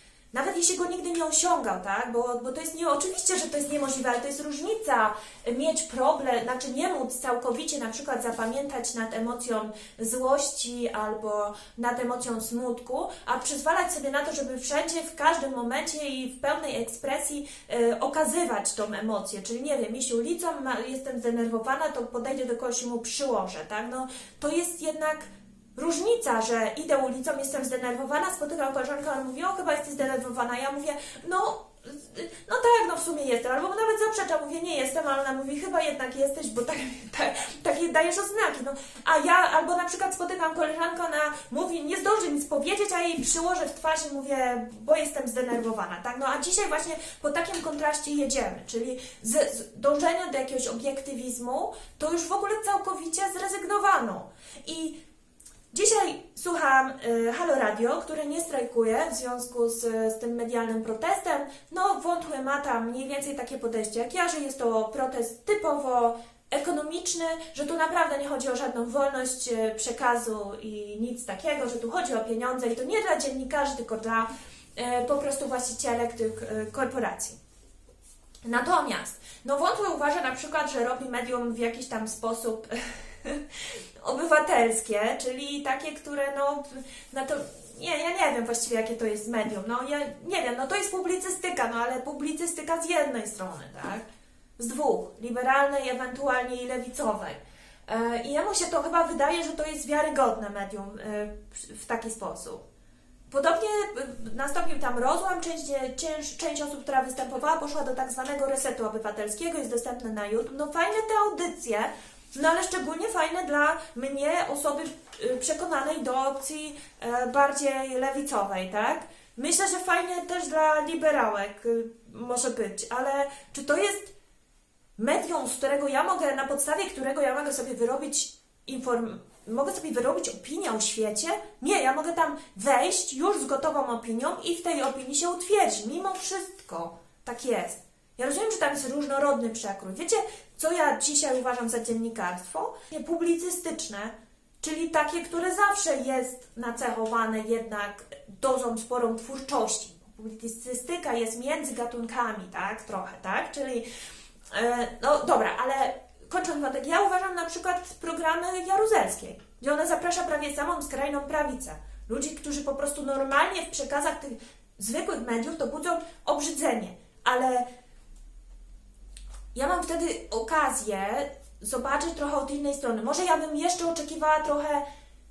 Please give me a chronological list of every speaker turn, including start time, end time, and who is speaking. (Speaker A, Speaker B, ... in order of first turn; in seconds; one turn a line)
Speaker A: 0.3-55.0
Speaker A: 55.7-77.4
Speaker A: 78.5-83.5
Speaker A: 84.0-94.0
Speaker A: 94.6-102.6
Speaker A: 103.3-124.1
Speaker A: 125.0-153.9
Speaker A: 154.5-167.7
Speaker A: 169.5-174.8